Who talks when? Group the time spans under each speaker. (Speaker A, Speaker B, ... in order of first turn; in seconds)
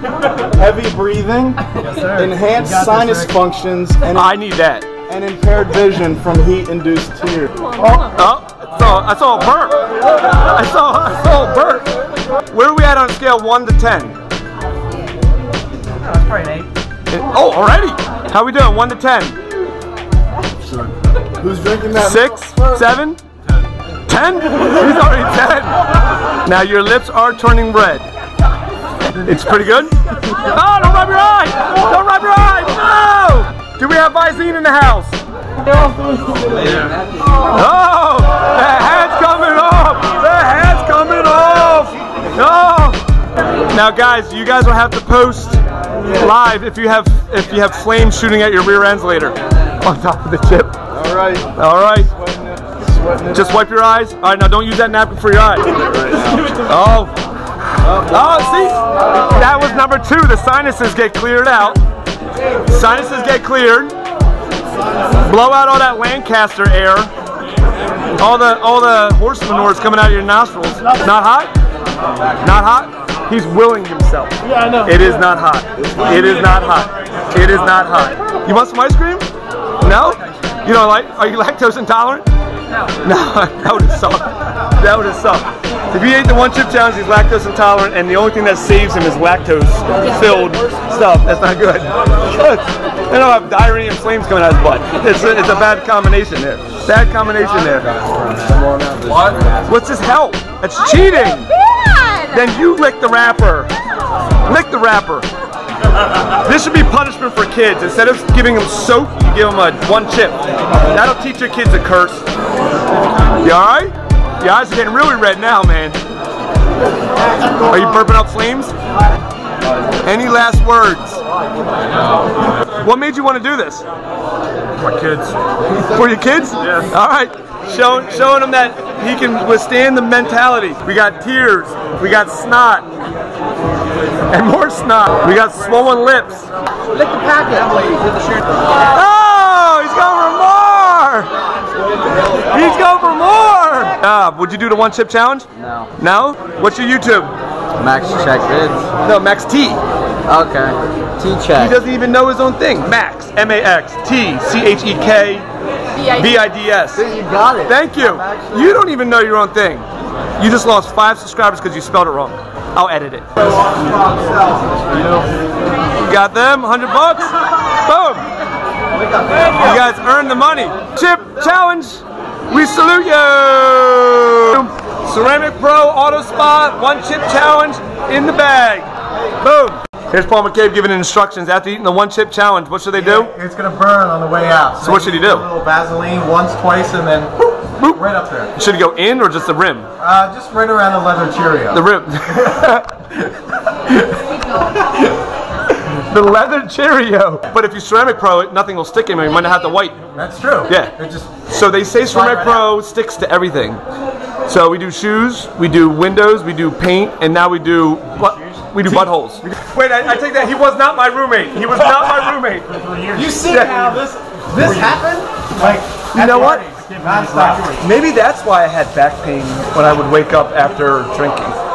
Speaker A: 0.5-4.3, 5.1-8.0, 21.4-22.5, 50.9-51.5, 52.2-53.6, 212.8-213.5, 214.5-214.9, 216.6-217.8
Speaker B: 4.1-4.9, 8.0-11.9, 12.5-14.2, 17.1-19.4, 21.9-23.2, 24.1-25.8, 26.4-28.1, 29.1-35.2, 37.5-43.0, 43.7-50.8, 51.5-52.1, 53.3-57.2, 57.9-61.8, 62.7-64.0, 65.2-67.1, 68.2-71.5, 72.4-79.3, 79.8-82.3, 83.0-98.2, 99.7-103.7, 104.5-105.3, 106.4-112.3, 113.4-116.0, 117.7-118.7, 120.0-121.2, 122.8-123.9, 124.8-132.9, 134.3-136.5, 138.9-141.3, 142.5-147.3, 148.9-149.8, 151.4-155.5, 156.0-159.9, 160.4-163.3, 166.0-168.3, 169.5-178.9, 179.4-183.3, 184.8-185.5, 187.8-188.0, 188.6-189.9, 191.7-194.1, 195.9-200.0, 200.7-203.8, 204.5-212.8, 213.4-214.1, 216.1-216.7, 217.8-221.6
Speaker C: 137.3-137.6, 145.6-145.9, 147.8-148.9, 150.3-151.7, 157.0-157.7
Speaker D: 164.1-164.9, 183.0-188.5, 190.0-191.8, 200.2-201.4, 202.2-202.6, 213.1-217.8